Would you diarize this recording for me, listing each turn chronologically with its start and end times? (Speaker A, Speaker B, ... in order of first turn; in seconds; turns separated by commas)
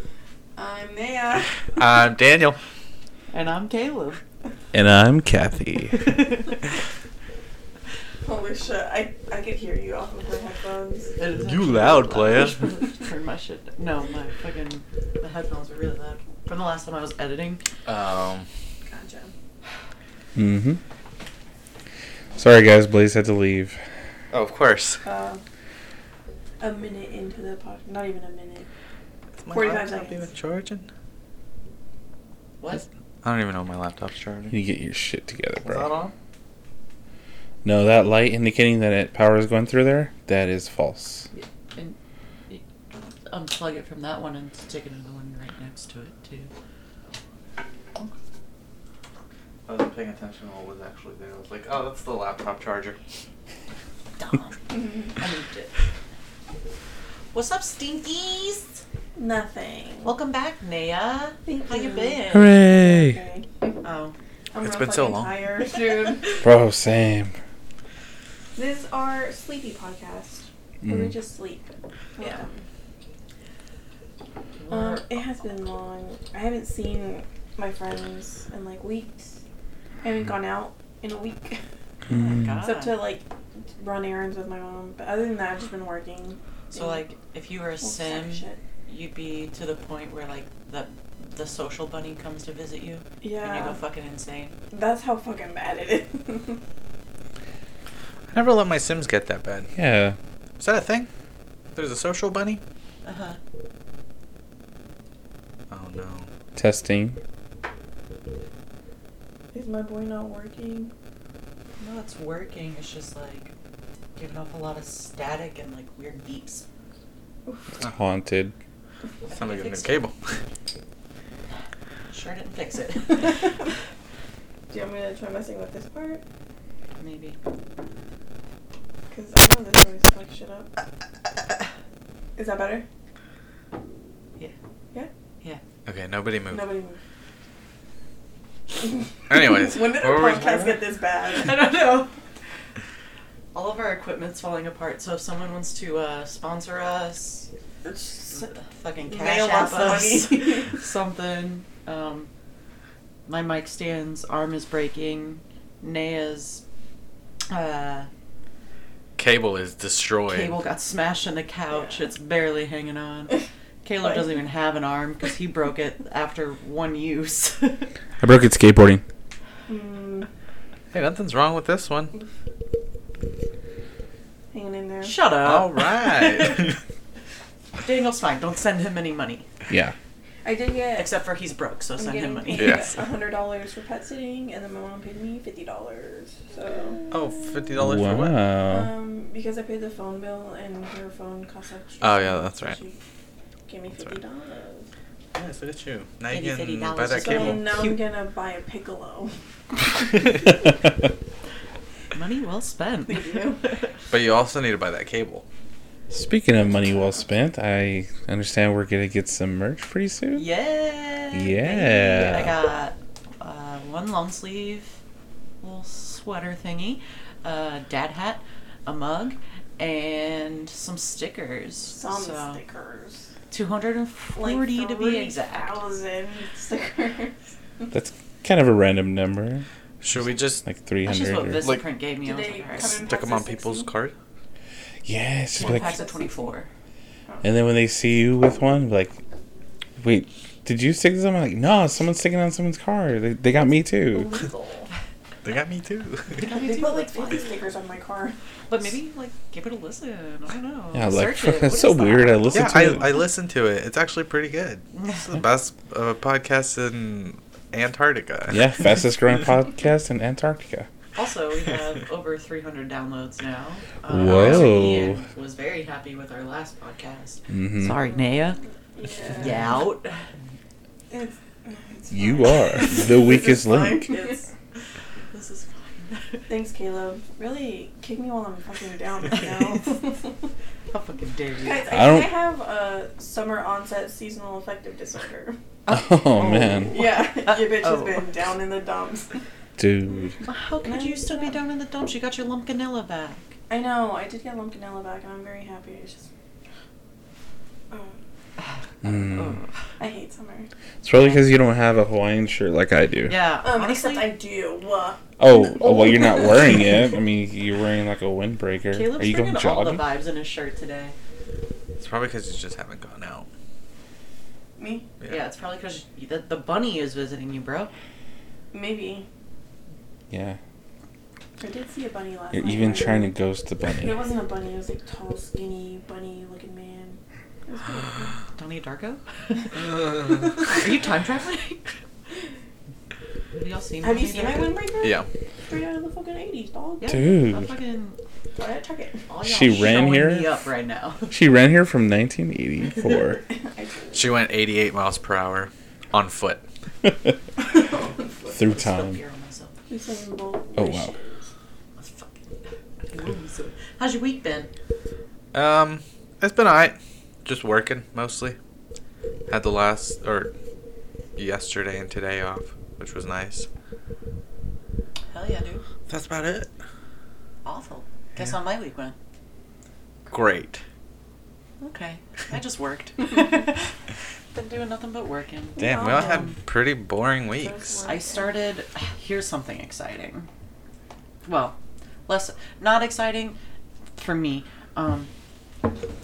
Speaker A: 0.6-1.6, Speaker B: 1.7-2.6, Speaker C: 3.3-4.2, Speaker D: 4.7-6.1, Speaker C: 5.9-6.6, Speaker A: 8.2-11.1, Speaker C: 11.2-17.6, Speaker B: 11.4-12.7, Speaker B: 17.9-18.5, Speaker A: 18.8-19.3, Speaker D: 20.4-20.8, Speaker D: 22.4-23.8, Speaker B: 24.3-25.0, Speaker A: 25.0-25.4, Speaker A: 26.6-28.7, Speaker B: 29.4-30.9, Speaker A: 29.5-30.3, Speaker B: 33.2-34.5, Speaker D: 34.5-35.9, Speaker B: 35.6-36.1, Speaker D: 37.6-41.3, Speaker C: 41.3-42.0, Speaker C: 43.3-46.5, Speaker B: 49.7-53.0, Speaker C: 54.2-55.7, Speaker A: 54.7-55.1, Speaker C: 57.3-58.8, Speaker A: 59.1-60.1, Speaker C: 60.0-62.4, Speaker A: 61.5-63.8, Speaker D: 62.3-63.2, Speaker C: 63.8-64.2, Speaker A: 64.5-66.4, Speaker B: 64.6-65.3, Speaker D: 66.4-67.3, Speaker A: 68.6-72.6, Speaker D: 70.8-71.1, Speaker C: 74.6-75.2, Speaker A: 74.7-79.3, Speaker A: 80.0-81.6, Speaker D: 82.1-82.6, Speaker A: 82.1-83.2, Speaker C: 82.2-83.0, Speaker A: 83.8-87.0, Speaker C: 86.7-94.5, Speaker A: 87.8-88.6, Speaker A: 93.2-93.8, Speaker A: 94.7-96.6, Speaker B: 98.3-99.7, Speaker D: 99.8-100.2, Speaker B: 100.6-101.1, Speaker B: 101.8-102.6, Speaker C: 103.0-103.4, Speaker B: 105.7-106.3, Speaker D: 106.6-107.2, Speaker A: 109.5-110.9, Speaker C: 111.8-113.5, Speaker C: 114.2-116.7, Speaker D: 117.8-118.5, Speaker C: 119.3-120.1, Speaker B: 119.3-120.2, Speaker C: 122.1-123.5, Speaker A: 124.7-126.2, Speaker C: 127.0-127.4, Speaker A: 129.1-130.7, Speaker A: 132.4-132.8, Speaker B: 135.9-136.7, Speaker A: 136.5-137.0, Speaker A: 138.8-141.7, Speaker B: 139.3-140.8, Speaker C: 141.3-142.1, Speaker C: 143.5-147.5, Speaker A: 147.8-150.8, Speaker C: 148.3-152.3, Speaker C: 153.3-156.6, Speaker C: 157.5-158.1, Speaker B: 159.2-160.6, Speaker C: 160.3-167.9, Speaker A: 161.7-162.1, Speaker A: 164.0-164.3, Speaker D: 168.2-169.0, Speaker A: 169.7-170.3, Speaker B: 170.9-172.1, Speaker A: 174.5-175.1, Speaker C: 175.0-176.7, Speaker B: 175.4-176.8, Speaker C: 177.8-179.5, Speaker D: 179.7-179.9, Speaker A: 180.4-181.1, Speaker C: 181.0-182.9, Speaker A: 182.0-187.1, Speaker B: 182.5-182.9, Speaker B: 187.1-188.4, Speaker D: 187.8-188.9, Speaker A: 188.7-193.0, Speaker B: 192.0-192.8, Speaker A: 193.7-194.9, Speaker B: 195.3-197.7, Speaker C: 196.3-198.0, Speaker A: 197.1-199.3, Speaker C: 202.1-203.9, Speaker A: 203.1-203.6, Speaker B: 204.1-205.4, Speaker D: 206.1-210.5, Speaker C: 210.3-215.0, Speaker D: 211.3-212.6, Speaker C: 215.6-222.6, Speaker A: 221.9-223.3, Speaker C: 223.5-225.8, Speaker A: 224.4-227.9, Speaker D: 227.9-229.7, Speaker B: 230.0-230.6, Speaker D: 230.6-231.7, Speaker C: 231.0-233.1, Speaker A: 232.2-233.9, Speaker B: 232.8-234.2, Speaker D: 235.1-236.0, Speaker C: 235.6-236.7, Speaker A: 235.6-236.5, Speaker D: 237.4-239.2, Speaker D: 240.0-244.4, Speaker A: 244.1-244.9, Speaker B: 245.4-246.4, Speaker C: 246.4-247.5, Speaker A: 246.4-248.4, Speaker C: 248.7-252.8, Speaker D: 250.9-253.1, Speaker B: 252.5-258.6, Speaker C: 255.0-255.2, Speaker D: 258.5-260.9, Speaker C: 261.1-268.6, Speaker D: 264.1-265.2, Speaker B: 264.3-264.7, Speaker D: 267.5-267.9, Speaker A: 268.9-269.6, Speaker C: 269.3-270.2, Speaker A: 271.1-274.5, Speaker D: 272.1-274.1, Speaker C: 275.3-276.5, Speaker A: 276.5-280.4, Speaker C: 280.9-281.9, Speaker A: 281.6-285.6, Speaker D: 281.9-282.4, Speaker C: 285.9-288.3, Speaker D: 285.9-287.1, Speaker A: 286.9-289.4, Speaker D: 289.8-290.4, Speaker C: 290.4-293.6, Speaker A: 290.8-291.6, Speaker A: 293.7-296.3, Speaker A: 297.9-298.2, Speaker D: 299.0-299.6, Speaker C: 299.0-299.7, Speaker A: 300.0-300.7, Speaker D: 301.0-303.4, Speaker C: 301.1-301.4, Speaker C: 303.3-304.4, Speaker A: 303.6-307.1, Speaker D: 305.4-310.0, Speaker C: 308.9-311.2, Speaker B: 312.0-313.5, Speaker A: 314.8-315.1, Speaker C: 315.2-317.9, Speaker A: 318.7-319.3, Speaker D: 320.3-320.6, Speaker A: 321.6-323.4, Speaker D: 322.5-324.3, Speaker A: 324.0-328.4, Speaker C: 328.6-329.2, Speaker A: 330.2-330.7, Speaker C: 330.6-331.9, Speaker C: 333.5-334.8, Speaker A: 334.0-337.3, Speaker B: 335.0-335.3, Speaker C: 337.0-338.2, Speaker D: 337.1-337.7, Speaker A: 338.6-339.2, Speaker C: 339.3-341.4, Speaker D: 339.4-340.5, Speaker D: 341.3-343.4, Speaker A: 343.5-344.3, Speaker B: 344.1-346.6, Speaker A: 347.6-348.7, Speaker D: 348.5-349.2, Speaker C: 348.6-349.8, Speaker A: 349.9-351.5, Speaker D: 350.8-351.1, Speaker C: 352.0-352.6, Speaker C: 353.1-354.7, Speaker B: 355.5-358.6, Speaker B: 359.5-360.5, Speaker B: 361.4-363.7, Speaker C: 365.3-365.8, Speaker B: 366.1-366.7, Speaker C: 367.6-369.2, Speaker B: 370.3-370.8, Speaker C: 371.8-373.9, Speaker C: 374.5-376.6, Speaker A: 375.8-376.5, Speaker B: 375.8-378.0, Speaker A: 377.6-378.5, Speaker C: 378.1-380.5, Speaker C: 381.4-383.6, Speaker C: 384.2-385.3